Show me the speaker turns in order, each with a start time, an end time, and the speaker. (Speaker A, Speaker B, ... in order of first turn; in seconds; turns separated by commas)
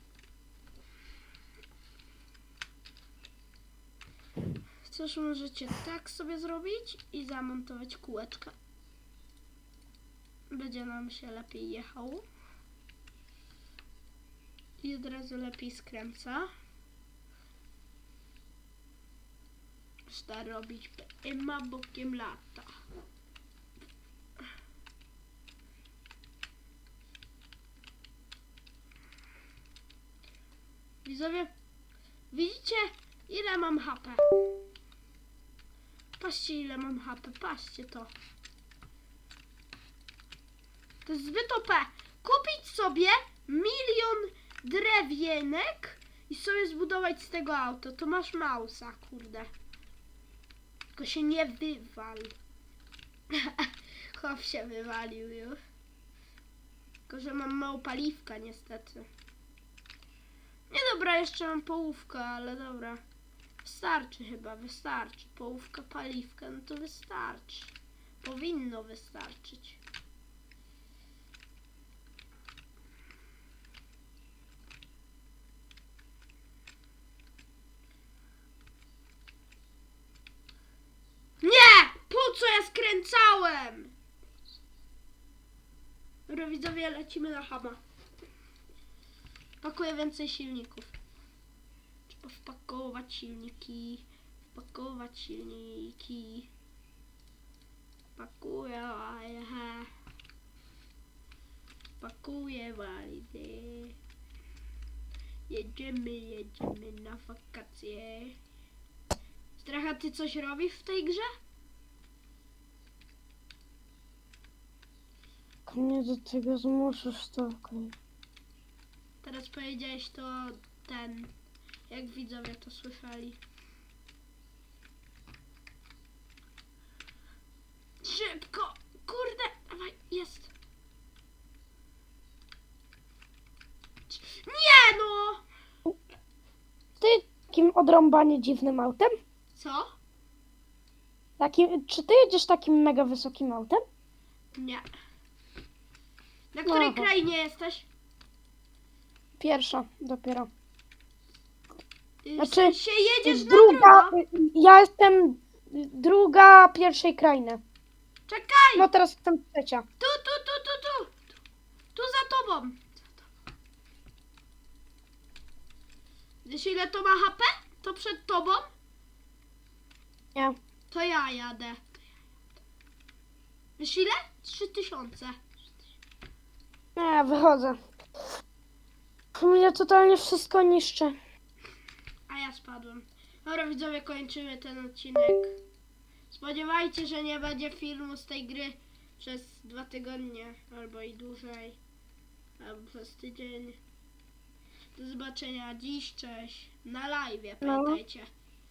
Speaker A: 4.8-8.5, Speaker A: 10.5-12.2, Speaker A: 14.8-16.5, Speaker A: 20.1-22.7, Speaker A: 31.0-31.5, Speaker A: 32.3-34.2, Speaker A: 36.2-38.1, Speaker A: 41.0-49.5, Speaker A: 50.9-52.3, Speaker A: 53.3-55.6, Speaker A: 57.1-59.1, Speaker A: 60.7-63.0, Speaker A: 63.6-69.8, Speaker A: 81.4-83.9, Speaker A: 86.3-87.8, Speaker A: 89.6-90.9, Speaker A: 92.1-96.5, Speaker A: 98.2-99.9, Speaker A: 102.0-104.0, Speaker A: 105.5-108.3, Speaker A: 109.6-111.3, Speaker B: 115.7-117.9, Speaker A: 119.2-121.3, Speaker A: 121.9-123.4, Speaker A: 128.0-130.5, Speaker A: 134.1-135.4, Speaker B: 137.0-139.1, Speaker A: 139.5-139.9, Speaker B: 141.4-143.8, Speaker A: 144.5-144.8, Speaker A: 146.5-147.9, Speaker B: 146.7-147.1, Speaker B: 149.4-150.5, Speaker A: 152.2-154.2, Speaker B: 152.4-157.6, Speaker A: 158.3-158.9, Speaker B: 158.8-159.8, Speaker A: 160.0-161.2, Speaker A: 161.9-163.0, Speaker A: 166.4-168.7, Speaker A: 170.9-171.9, Speaker A: 173.8-175.4, Speaker B: 176.9-177.8, Speaker B: 179.3-181.2, Speaker A: 182.3-185.6, Speaker A: 186.3-191.8, Speaker A: 192.6-193.8, Speaker A: 194.9-198.3, Speaker B: 197.6-198.0